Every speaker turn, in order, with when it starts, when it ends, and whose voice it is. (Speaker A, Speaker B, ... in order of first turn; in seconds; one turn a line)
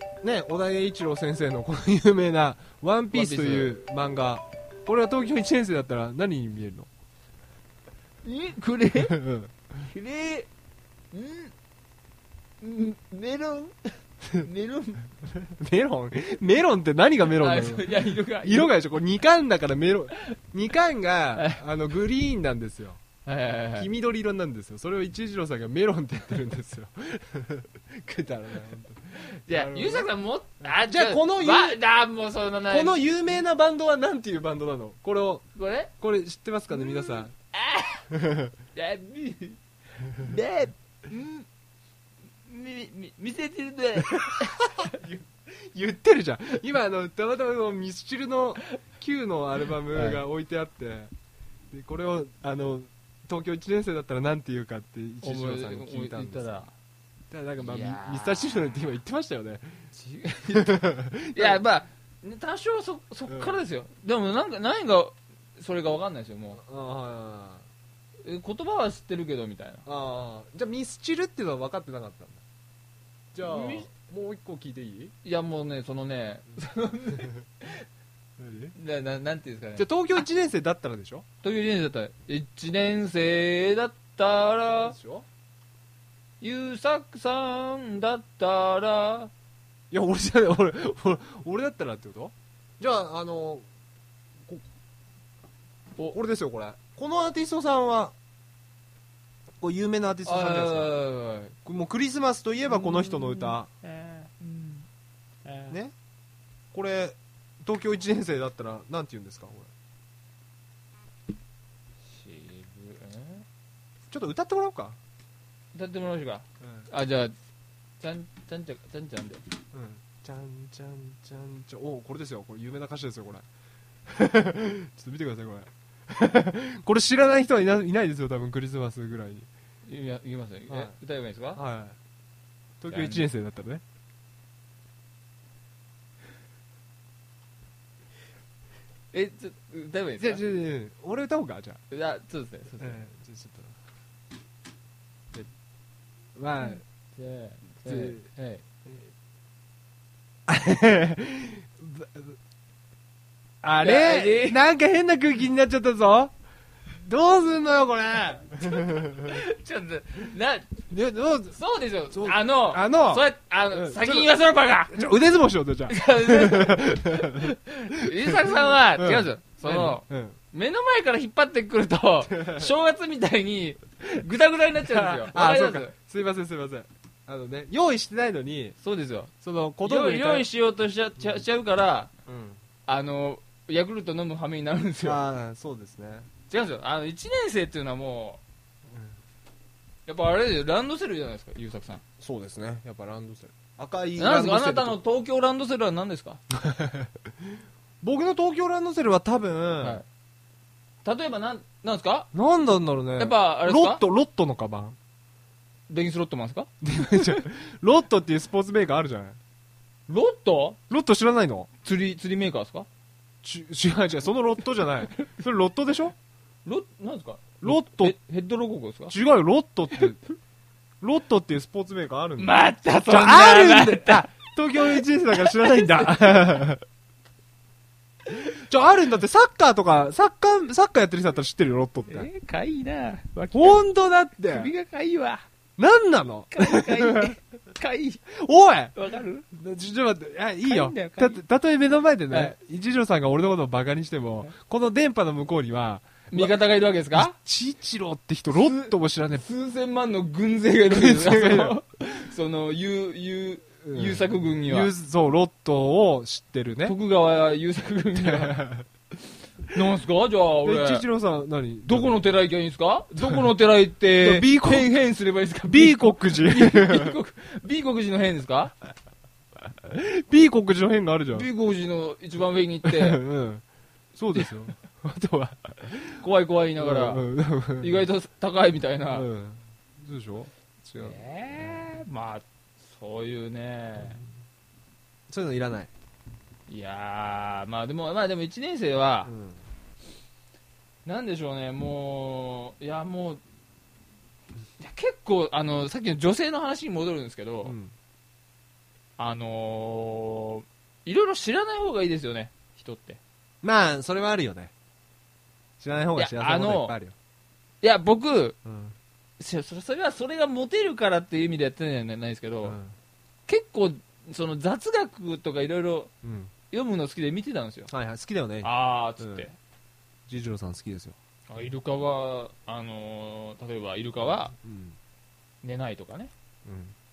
Speaker A: 0.2-6.9
Speaker B: 3.1-3.7
Speaker B: 8.2-9.2
Speaker A: 9.0-9.5
Speaker B: 9.8-10.5
Speaker B: 11.1-11.5
Speaker B: 12.6-15.1
Speaker A: 15.2-23.0
Speaker B: 17.3-18.7
Speaker B: 23.2-23.9
Speaker A: 23.8-30.1
Speaker B: 29.2-33.0
Speaker A: 30.6-31.8
Speaker A: 32.7-35.4
Speaker B: 35.5-35.9
Speaker A: 36.0-37.3
Speaker B: 36.7-38.0
Speaker A: 38.1-38.5
Speaker B: 38.7-39.6
Speaker B: 40.1-41.5
Speaker B: 42.5-45.0
Speaker A: 44.1-51.1
Speaker B: 49.9-50.2
Speaker A: 51.7-56.6
Speaker B: 55.2-56.7
Speaker A: 57.3-59.8
Speaker B: 57.6-58.8
Speaker B: 59.9-66.6
Speaker A: 60.5-61.6
Speaker A: 63.3-63.6
Speaker A: 66.6-67.6
Speaker B: 68.2-69.8
Speaker A: 69.8-72.4
Speaker A: 73.3-75.1
Speaker B: 73.4-73.9
Speaker B: 75.2-77.8
Speaker A: 78.4-78.7
Speaker B: 78.7-79.9
Speaker A: 79.8-81.2
Speaker B: 81.4-85.0
Speaker A: 84.8-85.2
Speaker B: 86.4-89.3
Speaker A: 89.9-93.7
Speaker A: 96.1-98.1
Speaker A: 99.6-101.0
Speaker B: 100.2-101.5
Speaker A: 101.6-103.7
Speaker B: 102.7-104.8
Speaker B: 105.4-105.7
Speaker A: 106.7-109.7
Speaker B: 112.1-113.4
Speaker A: 114.1-115.0
Speaker B: 115.7-117.3
Speaker A: 116.6-116.9
Speaker B: 118.0-119.4
Speaker A: 119.7-123.5
Speaker A: 124.0-129.5
Speaker B: 129.8-131.6
Speaker A: 130.7-130.9
Speaker A: 131.6-132.0
Speaker A: 132.8-133.8
Speaker B: 132.9-133.3
Speaker B: 139.1-140.4
Speaker A: 140.2-141.8
Speaker B: 141.9-143.0
Speaker A: 142.8-143.8
Speaker A: 146.3-146.8
Speaker B: 146.6-148.6
Speaker A: 147.8-148.2
Speaker A: 150.5-152.3
Speaker A: 153.6-156.3
Speaker B: 153.8-154.6
Speaker A: 156.9-159.4
Speaker B: 158.7-160.8
Speaker A: 160.9-161.6
Speaker B: 161.5-165.0
Speaker A: 162.1-164.3
Speaker A: 164.9-170.4
Speaker B: 165.9-175.9
Speaker A: 172.3-172.7
Speaker A: 174.8-178.8
Speaker B: 178.8-179.3
Speaker A: 179.4-180.5
Speaker B: 179.8-182.1
Speaker A: 182.2-182.6
Speaker B: 182.8-185.2
Speaker A: 185.0-186.3
Speaker B: 186.5-188.4
Speaker A: 188.9-189.2
Speaker B: 190.1-192.0
Speaker A: 192.2-195.0
Speaker B: 194.2-196.4
Speaker A: 196.5-200.0
Speaker B: 199.8-200.1
Speaker B: 201.0-202.3
Speaker A: 202.3-205.0
Speaker B: 203.2-204.0
Speaker B: 205.9-207.4
Speaker A: 206.8-209.4
Speaker B: 210.1-210.8
Speaker A: 210.9-211.7
Speaker B: 211.8-212.9
Speaker A: 213.4-216.2
Speaker B: 216.6-219.1
Speaker A: 217.6-218.2
Speaker A: 219.1-220.2
Speaker A: 221.0-226.8
Speaker B: 222.4-226.1
Speaker A: 228.5-232.3
Speaker B: 232.1-233.8
Speaker A: 233.5-234.7
Speaker B: 234.5-235.4
Speaker A: 235.8-237.3
Speaker B: 236.5-238.2
Speaker A: 238.3-238.9
Speaker B: 238.9-239.4
Speaker A: 239.5-246.6
Speaker B: 240.7-241.4
Speaker B: 246.3-247.3
Speaker A: 247.1-249.4
Speaker B: 248.5-254.9
Speaker A: 250.9-251.8
Speaker A: 253.8-256.9
Speaker B: 256.8-258.6
Speaker A: 258.1-258.9
Speaker B: 259.7-261.1
Speaker A: 260.6-262.2
Speaker B: 261.9-268.7
Speaker A: 264.1-264.9
Speaker A: 265.7-267.2
Speaker A: 269.8-271.5
Speaker B: 271.3-273.2
Speaker A: 272.8-273.6
Speaker A: 274.1-276.2
Speaker B: 276.2-277.2
Speaker A: 276.8-278.1
Speaker B: 277.8-279.3
Speaker A: 279.1-281.9
Speaker B: 281.0-284.2
Speaker A: 284.0-284.2
Speaker A: 285.3-285.9
Speaker B: 286.7-289.3
Speaker A: 289.2-289.6
Speaker B: 291.1-293.4
Speaker B: 294.8-297.8
Speaker A: 297.6-297.9
Speaker B: 299.2-303.2
Speaker A: 303.6-304.7
Speaker A: 305.8-307.1
Speaker B: 306.1-306.9
Speaker B: 307.8-308.6
Speaker A: 308.6-308.9
Speaker B: 309.4-312.8
Speaker A: 312.6-312.9
Speaker B: 313.5-316.1
Speaker A: 316.2-316.5
Speaker B: 316.7-317.9
Speaker A: 317.9-319.4
Speaker B: 318.6-319.6
Speaker A: 320.3-321.1
Speaker B: 321.5-324.5
Speaker A: 324.5-325.0
Speaker B: 325.6-326.3
Speaker A: 326.6-326.9